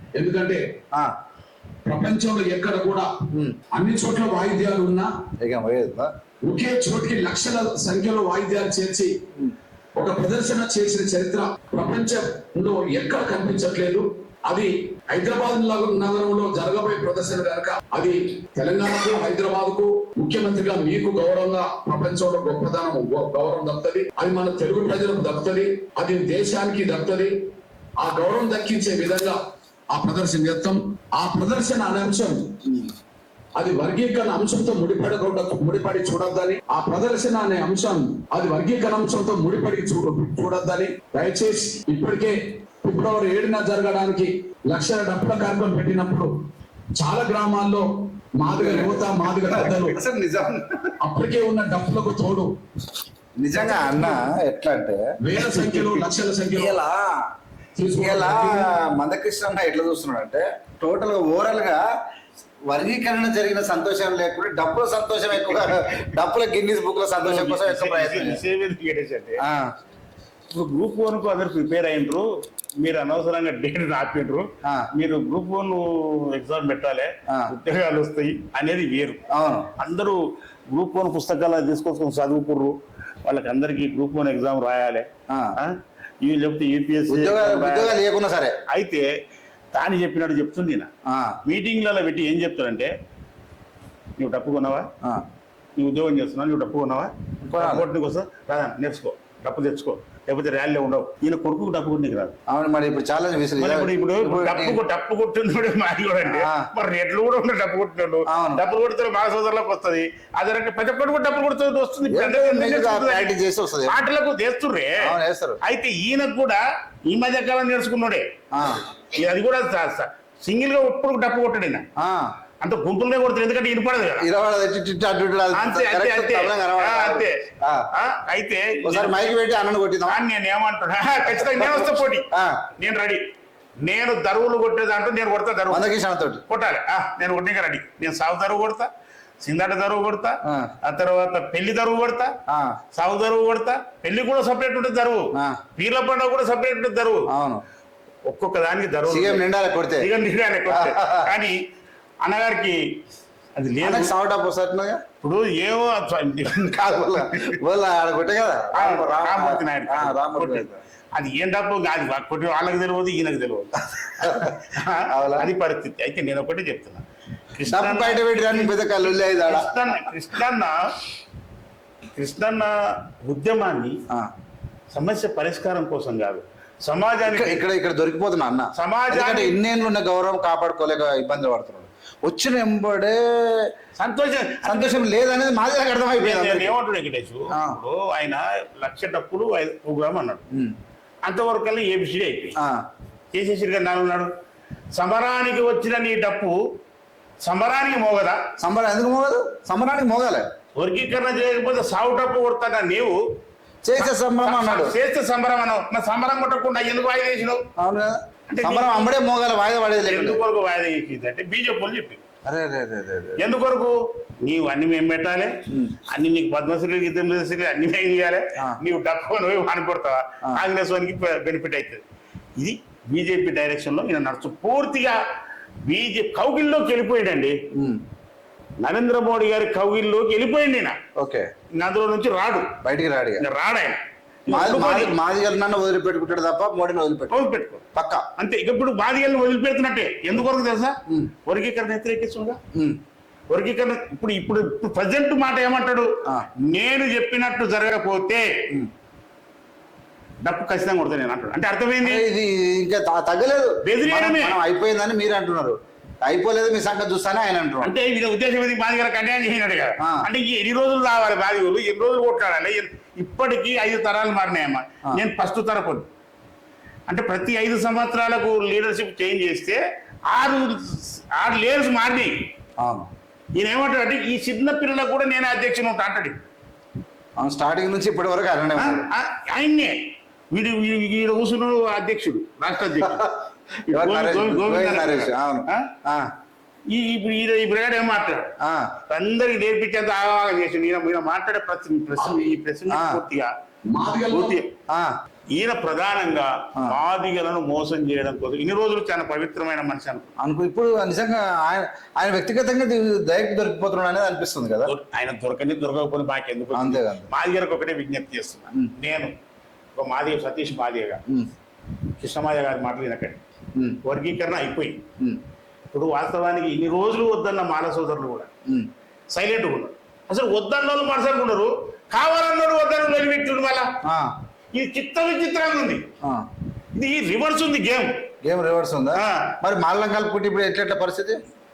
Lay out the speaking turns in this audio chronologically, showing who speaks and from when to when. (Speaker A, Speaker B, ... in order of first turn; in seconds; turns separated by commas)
Speaker A: 0.1-0.6, Speaker A: 1.9-3.1, Speaker A: 3.7-5.1, Speaker B: 5.4-6.1, Speaker A: 6.5-9.1, Speaker A: 9.9-27.3, Speaker A: 28.0-29.4, Speaker A: 29.9-32.5, Speaker B: 32.6-32.9, Speaker A: 33.6-46.3, Speaker A: 47.0-47.8, Speaker A: 48.4-50.0, Speaker B: 48.5-50.9, Speaker A: 51.0-52.5, Speaker B: 53.4-56.0, Speaker A: 53.7-54.1, Speaker A: 55.2-56.8, Speaker B: 56.5-57.2, Speaker A: 57.8-58.7, Speaker B: 58.0-61.8, Speaker B: 62.7-68.4, Speaker C: 67.2-69.4, Speaker B: 69.4-69.7, Speaker C: 70.5-72.2, Speaker C: 72.8-79.2, Speaker B: 79.3-79.7, Speaker C: 79.8-80.2, Speaker C: 80.7-82.7, Speaker C: 83.2-88.0, Speaker B: 85.3-85.5, Speaker B: 87.1-88.6, Speaker C: 88.7-89.1, Speaker C: 89.7-90.9, Speaker B: 91.1-91.4, Speaker C: 91.4-92.9, Speaker C: 94.2-94.9, Speaker C: 95.8-102.3, Speaker B: 97.4-97.8, Speaker B: 102.5-104.8, Speaker C: 103.6-113.3, Speaker B: 106.2-106.7, Speaker B: 108.3-108.6, Speaker B: 112.1-114.0, Speaker C: 113.9-115.1, Speaker B: 115.0-115.6, Speaker C: 115.6-118.2, Speaker B: 118.5-118.8, Speaker C: 119.1-121.8, Speaker B: 122.0-122.3, Speaker C: 122.6-124.3, Speaker B: 124.2-127.9, Speaker C: 125.5-127.3, Speaker C: 127.9-129.2, Speaker B: 128.8-130.2, Speaker C: 130.1-132.2, Speaker B: 131.3-132.6, Speaker C: 132.8-133.2, Speaker C: 133.8-135.9, Speaker B: 135.7-136.4, Speaker C: 136.5-138.9, Speaker C: 139.4-142.3, Speaker B: 140.4-140.7, Speaker B: 142.5-142.8, Speaker C: 142.9-147.3, Speaker B: 145.3-145.6, Speaker B: 147.3-147.6, Speaker C: 148.3-149.4, Speaker B: 149.1-150.1, Speaker C: 150.0-151.6, Speaker B: 150.7-151.3, Speaker C: 152.2-152.8, Speaker C: 153.6-154.1, Speaker B: 153.8-155.0, Speaker C: 155.2-157.6, Speaker B: 156.5-160.8, Speaker C: 158.7-167.0, Speaker B: 164.2-165.5, Speaker C: 167.6-170.8, Speaker B: 167.7-169.8, Speaker C: 172.1-174.0, Speaker C: 174.9-177.6, Speaker B: 177.3-183.7, Speaker C: 178.8-179.6, Speaker C: 184.0-185.1, Speaker B: 184.7-186.7, Speaker C: 186.2-190.4, Speaker C: 191.2-192.6, Speaker B: 192.6-192.8, Speaker C: 193.3-194.3, Speaker C: 194.9-196.6, Speaker C: 197.4-198.4, Speaker B: 198.6-200.4, Speaker C: 200.8-203.2, Speaker B: 203.8-204.9, Speaker C: 204.0-207.6, Speaker B: 207.8-210.4, Speaker C: 208.5-209.1, Speaker C: 210.0-212.2, Speaker B: 212.4-213.4, Speaker C: 213.4-215.5, Speaker B: 215.7-216.0, Speaker C: 216.1-222.0, Speaker C: 222.6-225.2, Speaker C: 225.8-227.6, Speaker B: 227.7-228.0, Speaker C: 228.8-231.0, Speaker B: 231.2-231.5, Speaker C: 231.7-232.8, Speaker B: 232.8-233.4, Speaker C: 233.4-235.2, Speaker B: 234.5-237.4, Speaker C: 237.3-237.8, Speaker B: 237.9-238.2, Speaker C: 238.4-242.6, Speaker C: 243.5-246.1, Speaker C: 246.7-248.5, Speaker C: 250.4-252.2, Speaker B: 252.0-257.9, Speaker C: 253.8-254.6, Speaker C: 257.8-266.1, Speaker B: 260.0-260.3, Speaker C: 267.1-269.8, Speaker C: 270.3-272.4, Speaker B: 272.8-273.1, Speaker C: 273.6-276.4, Speaker B: 277.4-279.0, Speaker C: 278.8-279.9, Speaker C: 280.5-283.3, Speaker B: 283.0-283.3, Speaker B: 283.9-286.3, Speaker C: 283.9-285.9, Speaker C: 286.9-288.5, Speaker B: 288.6-288.9, Speaker C: 289.1-293.5, Speaker A: 292.2-292.5, Speaker B: 292.9-293.2, Speaker A: 293.9-294.6, Speaker C: 294.3-294.7, Speaker B: 294.9-295.1, Speaker C: 295.5-300.3, Speaker B: 300.4-304.9, Speaker C: 304.9-309.3, Speaker B: 306.7-307.3, Speaker C: 309.9-311.2, Speaker C: 312.2-313.4, Speaker C: 314.0-315.0, Speaker C: 315.9-318.5, Speaker C: 319.3-323.9, Speaker B: 324.0-324.3, Speaker C: 324.7-326.1, Speaker B: 326.2-326.5, Speaker C: 326.9-328.1, Speaker B: 328.4-331.4, Speaker C: 329.1-329.5